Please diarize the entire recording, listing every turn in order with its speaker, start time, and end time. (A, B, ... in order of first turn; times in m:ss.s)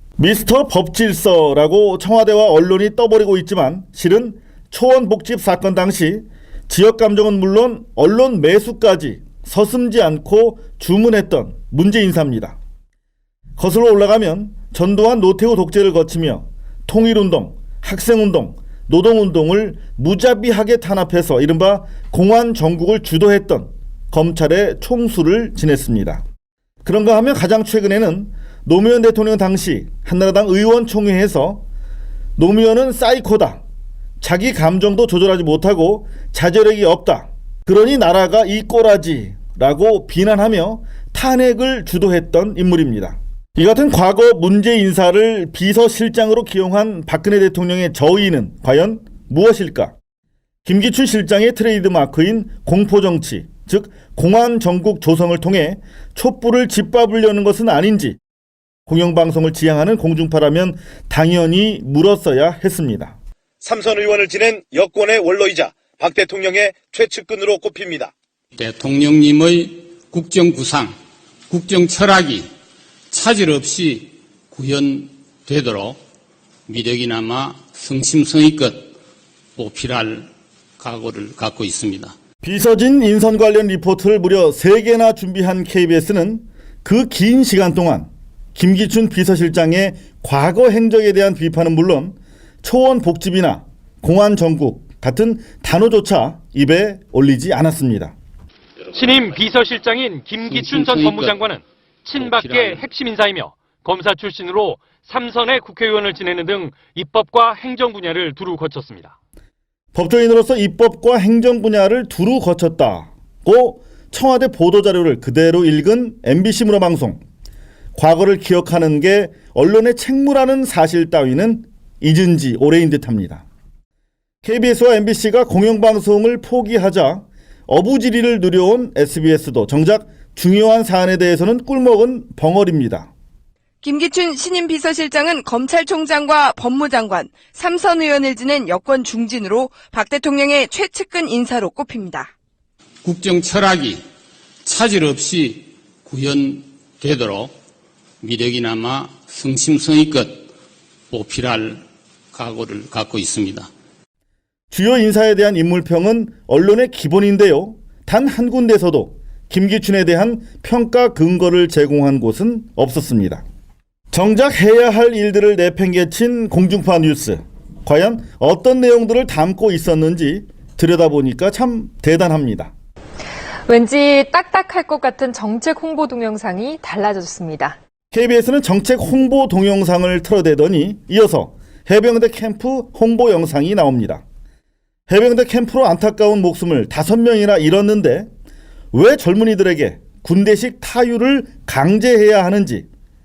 0:00.2-0:12.6 A
0:13.6-0:26.2 A
0:26.8-0:31.6 A
0:32.4-0:33.6 A
0:34.2-0:49.9 A
0:50.6-0:58.2 A
0:58.9-1:03.1 A
1:03.6-1:08.1 B
1:08.6-1:10.9 C
1:11.5-1:12.5 C
1:13.1-1:16.0 C
1:16.7-1:18.9 C
1:19.6-1:22.2 C
1:22.4-1:38.1 A
1:38.9-1:49.1 D
1:40.5-1:41.4 C
1:42.2-1:42.8 C
1:49.9-1:57.2 A
1:57.9-2:03.4 A
2:04.4-2:13.1 A
2:13.8-2:22.3 E
2:23.0-2:24.0 C
2:24.6-2:27.5 C
2:28.2-2:30.5 C
2:31.1-2:33.7 C
2:34.7-2:43.4 A
2:44.1-2:52.7 A
2:53.7-2:57.8 F
2:58.1-3:04.2 A
3:05.1-3:08.3 A
3:08.9-3:12.9 A